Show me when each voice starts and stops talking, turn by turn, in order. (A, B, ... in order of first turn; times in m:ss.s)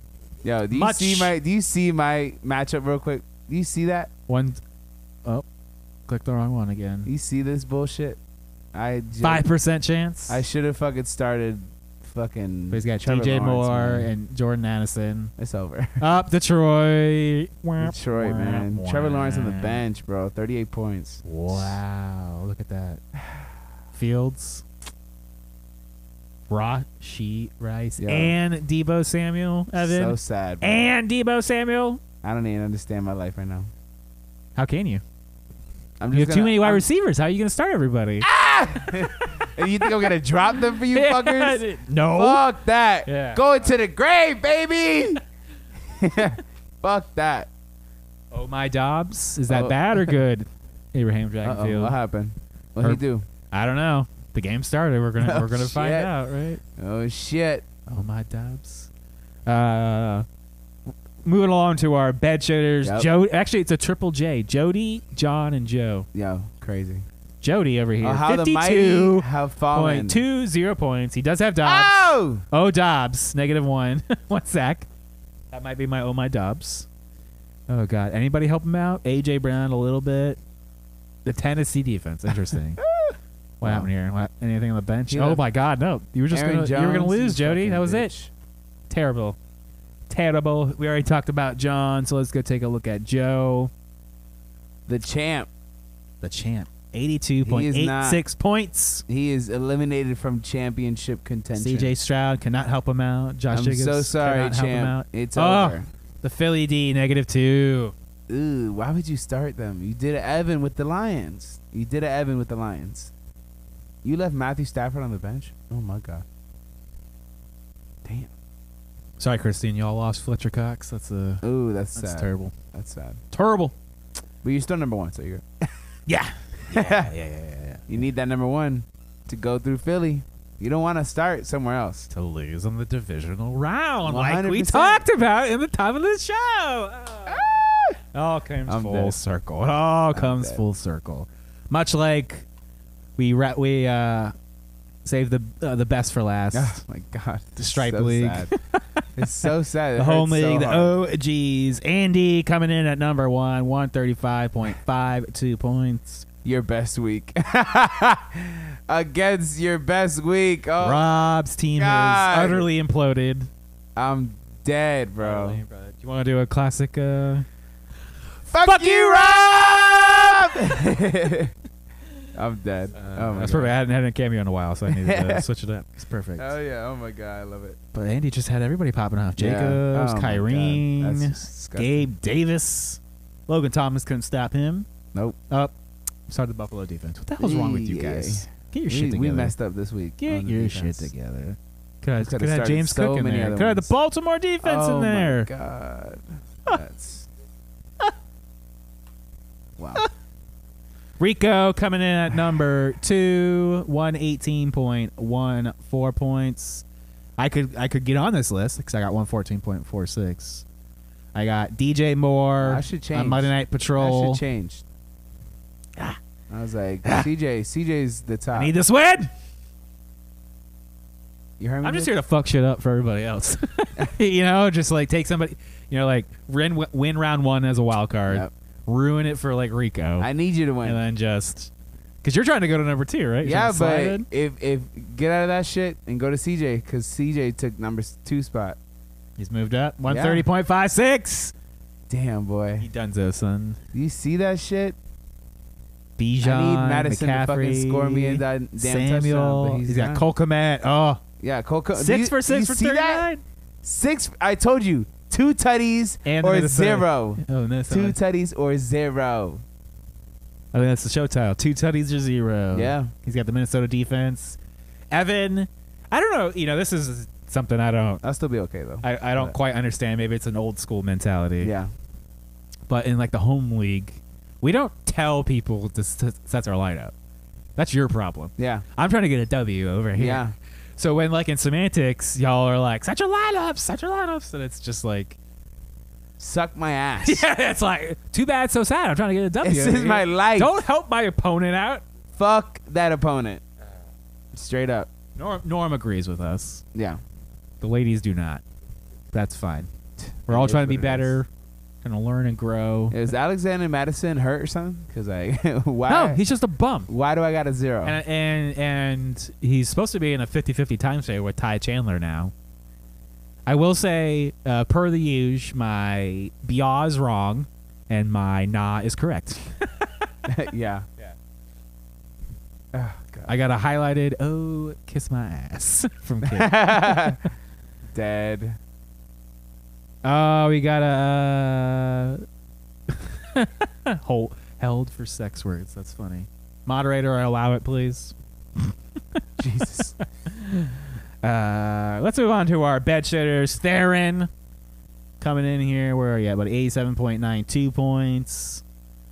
0:00.4-0:04.1 A
0:00.7-0:01.3 B
0:04.3-0:04.6 B
0:06.1-0:07.1 B
0:07.0-0:08.2 A
0:08.7-0:09.4 A
0:09.2-0:10.4 B
0:10.3-0:14.1 A
0:12.7-0:15.3 B
0:15.4-0:16.0 A
0:16.0-0:19.8 B
0:17.8-0:21.8 A
0:21.2-0:23.0 B
0:23.9-0:24.6 B
0:26.5-0:32.0 B
0:28.0-0:28.3 A
0:29.8-0:30.9 A
0:32.2-0:33.7 A
0:34.6-0:35.0 B
0:36.0-0:36.8 A
0:36.1-0:38.3 B
0:38.2-0:45.2 A
0:39.0-0:40.0 B
0:40.8-0:42.4 B
0:43.0-0:43.4 B
0:45.9-0:47.5 A
0:48.3-0:52.0 B
0:49.5-0:50.2 A
0:51.4-0:53.2 A
0:52.8-0:56.6 B
0:55.2-0:56.1 A
0:56.8-0:57.6 A
0:57.9-0:58.9 B
0:59.4-1:00.2 B
1:01.2-1:06.1 B
1:02.8-1:03.1 A
1:06.1-1:07.0 A
1:07.4-1:14.9 B
1:08.0-1:10.2 A
1:11.6-1:12.4 A
1:15.5-1:16.9 B
1:17.7-1:20.4 B
1:21.2-1:22.8 B
1:22.8-1:23.9 A
1:23.6-1:28.1 B
1:25.1-1:25.4 A
1:26.3-1:28.3 A
1:28.9-1:29.4 B
1:30.1-1:33.7 B
1:34.9-1:35.5 A
1:36.2-1:39.0 B
1:37.4-1:38.2 A
1:39.1-1:41.9 A
1:41.5-1:47.9 B
1:43.5-1:45.9 A
1:48.3-1:53.1 A
1:54.0-1:56.2 A
1:58.0-1:58.3 A
1:59.2-2:01.4 B
2:01.4-2:03.2 A
2:01.9-2:02.5 B
2:03.3-2:03.7 B
2:04.4-2:05.4 A
2:06.1-2:07.9 B
2:06.7-2:07.1 A
2:07.9-2:12.1 A
2:12.1-2:17.6 B
2:14.0-2:15.0 A
2:17.3-2:18.0 A
2:18.1-2:22.4 B
2:18.7-2:19.2 A
2:20.1-2:20.6 A
2:23.2-2:24.3 B
2:25.0-2:26.8 B
2:26.5-2:28.5 A
2:27.6-2:36.2 B
2:29.2-2:30.9 A
2:36.4-2:41.0 A
2:40.8-2:43.5 B
2:41.8-2:42.7 A
2:44.0-2:45.6 A
2:45.2-2:47.5 B
2:48.5-2:51.5 A
2:48.6-2:50.6 B
2:52.3-2:53.7 A
2:52.9-2:56.5 B
2:54.8-2:55.4 A
2:56.4-2:57.8 A
2:57.9-3:04.9 B
2:59.4-3:02.1 A
3:06.3-3:09.5 B
3:07.4-3:11.1 A
3:10.2-3:15.5 B
3:12.2-3:13.9 A
3:14.6-3:17.3 A
3:19.8-3:20.0 A
3:21.2-3:26.8 B
3:27.4-3:30.6 B
3:31.3-3:34.4 B
3:32.6-3:34.8 A
3:36.5-3:38.7 A
3:38.5-3:39.3 B
3:41.6-3:42.1 A
3:41.8-3:50.3 B
3:50.2-3:51.0 A
3:50.8-3:51.7 B
3:52.2-3:54.3 B
3:53.4-3:58.8 A
3:59.4-4:01.5 B
4:00.1-4:00.4 A
4:02.1-4:02.8 A
4:02.8-4:03.8 B
4:03.9-4:05.0 A
4:06.2-4:11.2 B
4:06.4-4:10.2 A
4:11.4-4:13.2 A
4:11.9-4:13.4 B
4:13.8-4:19.6 A
4:16.2-4:18.2 B
4:20.7-4:24.6 B
4:22.7-4:23.1 A
4:25.1-4:28.2 B
4:28.2-4:29.6 A
4:29.0-4:31.7 B
4:31.6-4:31.9 A
4:32.9-4:37.1 B
4:37.8-4:40.4 B
4:38.6-4:38.8 A
4:40.2-4:40.5 A
4:41.0-4:45.4 B
4:46.4-4:47.4 A
4:47.2-4:52.0 B
4:49.6-4:50.8 A
4:52.4-4:53.6 A
4:54.5-4:55.1 A
4:55.4-4:56.8 B
4:56.9-4:57.2 A
4:57.8-4:58.6 B
4:59.3-4:59.9 B
5:00.5-5:01.4 A
5:00.5-5:01.5 B
5:02.0-5:03.2 B
5:03.1-5:06.4 A
5:06.1-5:07.1 B
5:07.1-5:08.2 A
5:08.0-5:12.5 B
5:13.6-5:20.3 B
5:20.4-5:21.1 A
5:22.9-5:23.5 A
5:23.5-5:27.4 B
5:26.4-5:27.4 A
5:28.1-5:28.8 A
5:30.2-5:32.4 B
5:33.1-5:39.4 B
5:39.6-5:40.1 A
5:40.2-5:44.5 B
5:45.4-5:48.8 B